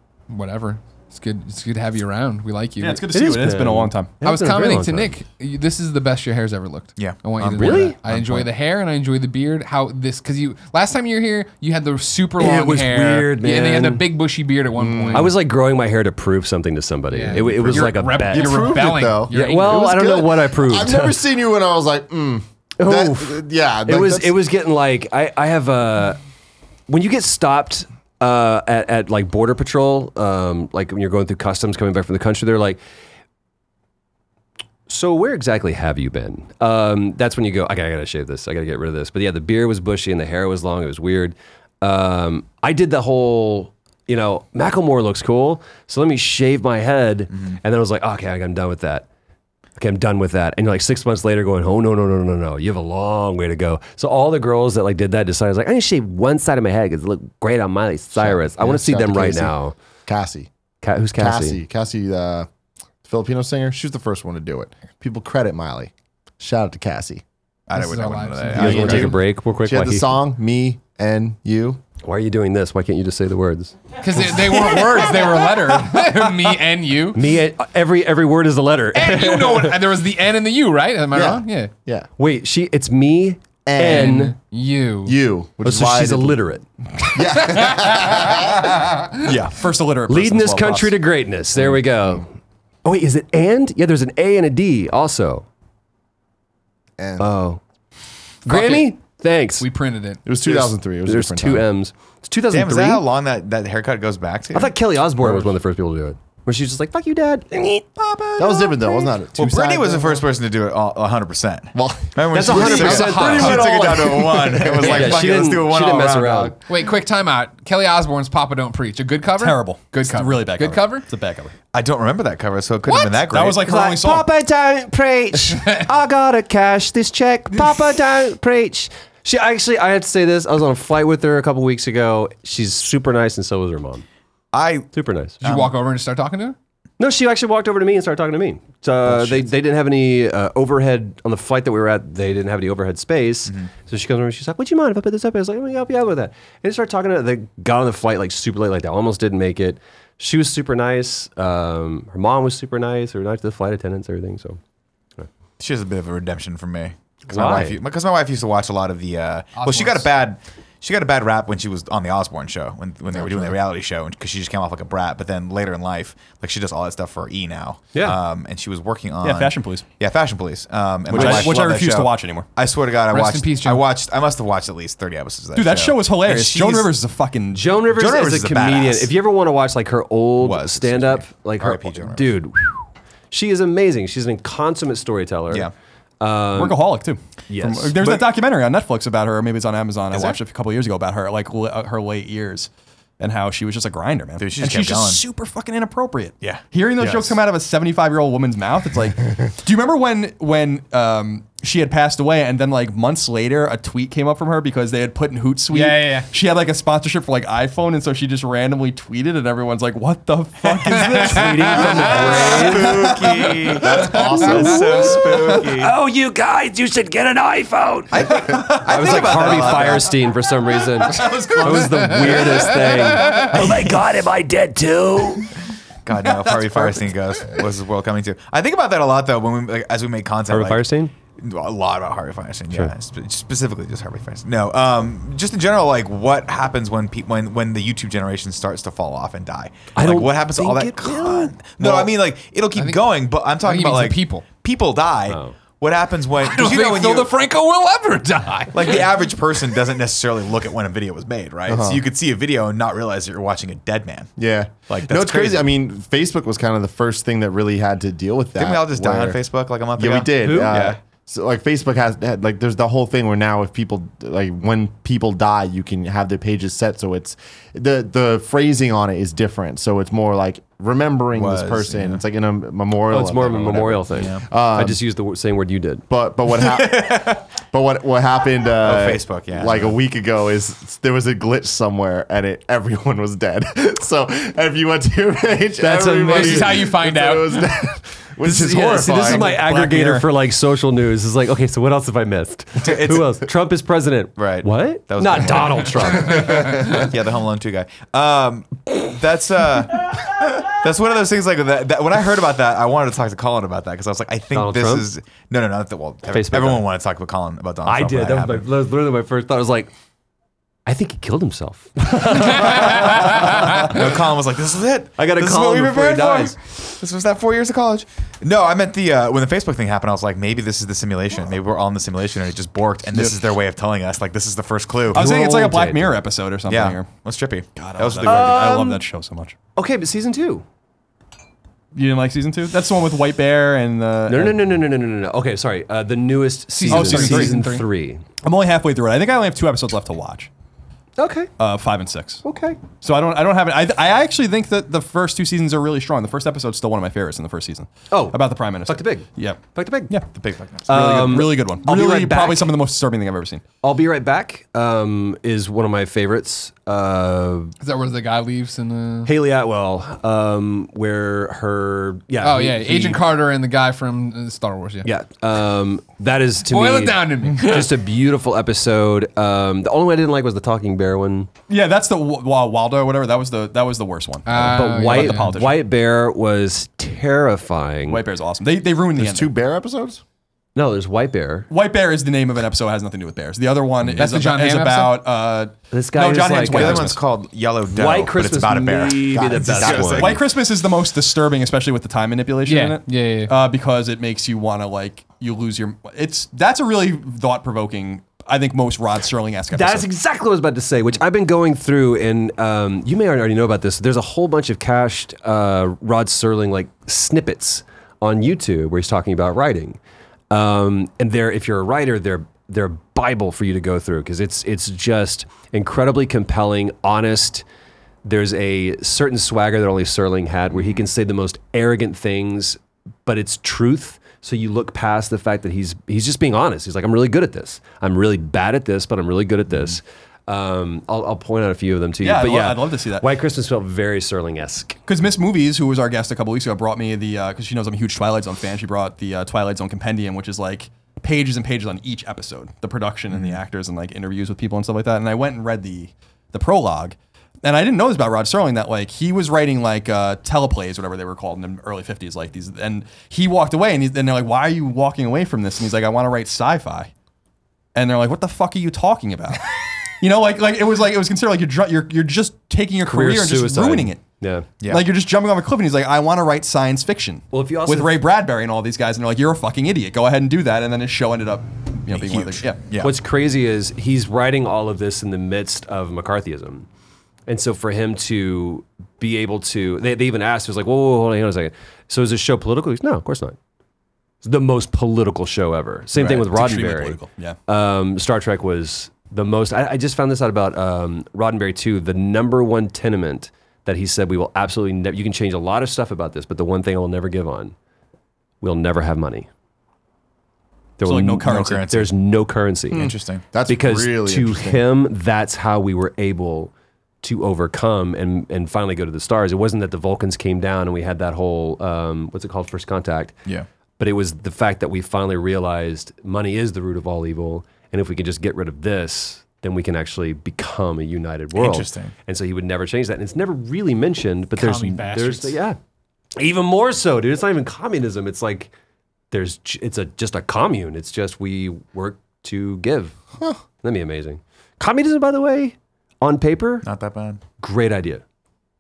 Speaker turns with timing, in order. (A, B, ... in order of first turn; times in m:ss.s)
0:00.3-0:03.1 A
0:02.8-0:04.1 B
0:03.1-0:05.1 C
0:04.2-0:15.4 A
0:07.0-0:08.5 D
0:07.6-0:08.0 C
0:12.4-0:14.1 C
0:14.8-0:15.3 E
0:15.1-0:21.2 C
0:17.1-0:19.9 A
0:17.3-0:24.4 E
0:22.8-0:26.2 C
0:26.9-0:32.8 C
0:34.9-0:49.1 C
0:49.8-0:59.8 C
0:58.2-0:59.5 E
1:00.1-1:00.5 E
1:00.8-1:01.6 C
1:01.2-1:02.5 E
1:03.0-1:07.2 E
1:07.7-1:09.2 D
1:07.7-1:08.9 A
1:08.6-1:10.1 C
1:08.6-1:11.8 E
1:12.0-1:13.8 C
1:14.0-1:17.2 A
1:17.1-1:19.9 C
1:18.9-1:21.7 A
1:21.1-1:22.1 E
1:22.2-1:24.3 C
1:23.7-1:24.2 E
1:23.8-1:25.2 A
1:25.1-1:26.4 E
1:25.6-1:26.6 C
1:27.1-1:28.7 E
1:27.6-1:29.2 A
1:29.2-1:29.6 D
1:29.2-1:31.0 B
1:30.1-1:32.3 C
1:32.8-1:35.5 C
1:37.0-1:37.3 E
1:37.2-1:37.6 C
1:38.4-1:39.7 C
1:38.5-1:39.0 A
1:39.6-1:40.2 A
1:40.2-1:41.7 E
1:40.4-1:43.0 C
1:42.5-1:45.4 D
1:44.5-1:47.9 C
1:48.0-1:49.1 B
1:48.4-1:50.2 E
1:49.4-1:56.6 D
1:51.8-1:55.5 E
1:52.3-1:56.6 C
1:52.6-1:53.8 A
1:56.7-2:01.1 A
1:59.4-2:01.5 B
2:01.7-2:03.7 D
2:02.9-2:03.2 A
2:03.3-2:04.3 B
2:03.6-2:14.0 C
2:14.5-2:14.9 D
2:14.9-2:15.4 C
2:15.4-2:15.7 D
2:15.4-2:16.6 A
2:17.0-2:34.6 C
2:19.1-2:19.5 D
2:35.6-2:56.9 D
2:37.3-2:37.8 C
2:39.6-2:40.1 A
2:49.2-2:49.8 B
2:51.1-2:52.5 B
2:51.1-2:51.6 C
2:53.1-2:53.9 A
2:55.6-2:57.7 B
2:57.6-3:06.8 C
2:57.9-2:59.1 D
3:00.4-3:02.4 D
3:06.6-3:33.3 B
3:07.5-3:08.2 C
3:10.1-3:10.4 D
3:14.4-3:15.2 D
3:25.7-3:26.3 A
3:30.7-3:31.3 D
3:31.0-3:31.8 A
3:31.1-3:33.1 C
3:32.0-3:35.9 D
3:32.8-3:33.0 E
3:33.7-3:35.3 E
3:34.9-3:45.5 C
3:38.1-3:40.1 D
3:38.3-3:40.0 B
3:41.1-3:42.7 B
3:41.8-3:42.2 A
3:46.0-3:50.8 D
3:46.3-3:47.1 B
3:50.5-3:51.1 C
3:51.4-4:07.3 D
4:00.0-4:02.0 C
4:02.8-4:04.4 A
4:05.3-4:05.6 C
4:06.4-4:09.1 A
4:08.7-4:14.3 D
4:11.7-4:12.0 E
4:14.4-4:19.4 E
4:14.9-4:15.8 D
4:18.6-4:21.0 D
4:20.0-4:35.0 E
4:20.4-4:20.8 C
4:31.3-4:32.2 D
4:33.1-4:36.0 C
4:34.1-4:34.4 D
4:36.1-4:49.6 E
4:36.6-4:37.4 D
4:38.8-4:40.0 D
4:45.8-4:46.9 C
4:45.9-4:47.7 A
4:48.4-4:57.0 C
4:48.7-4:50.3 B
4:52.8-4:53.4 D
4:54.4-5:08.7 D
5:04.5-5:05.1 C
5:06.3-5:06.9 C
5:07.8-5:09.9 C
5:10.9-5:14.1 C
5:12.4-5:25.3 D
5:15.2-5:16.6 C
5:25.1-5:27.1 B
5:25.1-5:26.1 C
5:26.7-5:28.6 D
5:27.8-5:29.6 B
5:28.2-5:29.0 C
5:29.8-5:30.6 C
5:32.0-5:34.6 B
5:34.3-5:38.2 C
5:36.8-5:37.8 A
5:36.9-5:37.6 B
5:38.4-5:40.5 B
5:41.2-5:41.5 C
5:41.6-5:50.3 B
5:42.4-5:42.8 C
5:48.1-5:50.1 C
5:50.3-5:51.2 D
5:50.9-5:52.7 C
5:50.9-5:53.6 B
5:53.8-5:57.7 C
5:57.8-5:59.3 A
5:59.3-6:03.2 C
6:02.4-6:05.1 A
6:05.0-6:11.5 C
6:06.7-6:07.9 A
6:11.7-6:15.8 B
6:14.5-6:15.5 A
6:14.6-6:18.2 C
6:18.1-6:19.5 B
6:19.2-6:20.2 E
6:20.8-6:21.7 C
6:21.7-6:27.2 B
6:24.2-6:25.2 A
6:25.9-6:27.2 C
6:26.7-6:30.4 D
6:27.9-6:30.4 C
6:29.3-6:30.4 E
6:30.2-6:40.1 B
6:32.7-6:33.5 A
6:39.7-6:50.0 C
6:50.5-6:57.6 C
6:58.2-7:15.0 C
7:12.2-7:13.3 B
7:15.1-7:37.1 B
7:23.3-7:23.6 D
7:38.0-7:44.2 B
7:43.0-7:44.7 C
7:44.8-7:52.8 B
7:47.5-7:48.2 C
7:52.1-7:53.2 D
7:53.0-7:56.9 C
7:57.5-8:03.6 C
8:04.4-8:17.7 C
8:06.2-8:07.6 B
8:18.6-8:19.5 C
8:21.0-8:33.4 C
8:21.0-8:21.8 B
8:21.4-8:22.1 D
8:22.9-8:23.4 D
8:23.5-8:24.8 E
8:34.0-8:45.8 C
8:41.5-8:42.1 D
8:44.6-8:45.6 A
8:46.4-8:48.7 C
8:49.3-8:53.2 C
8:53.8-8:56.9 C
8:56.8-8:57.4 D
8:57.6-8:58.2 C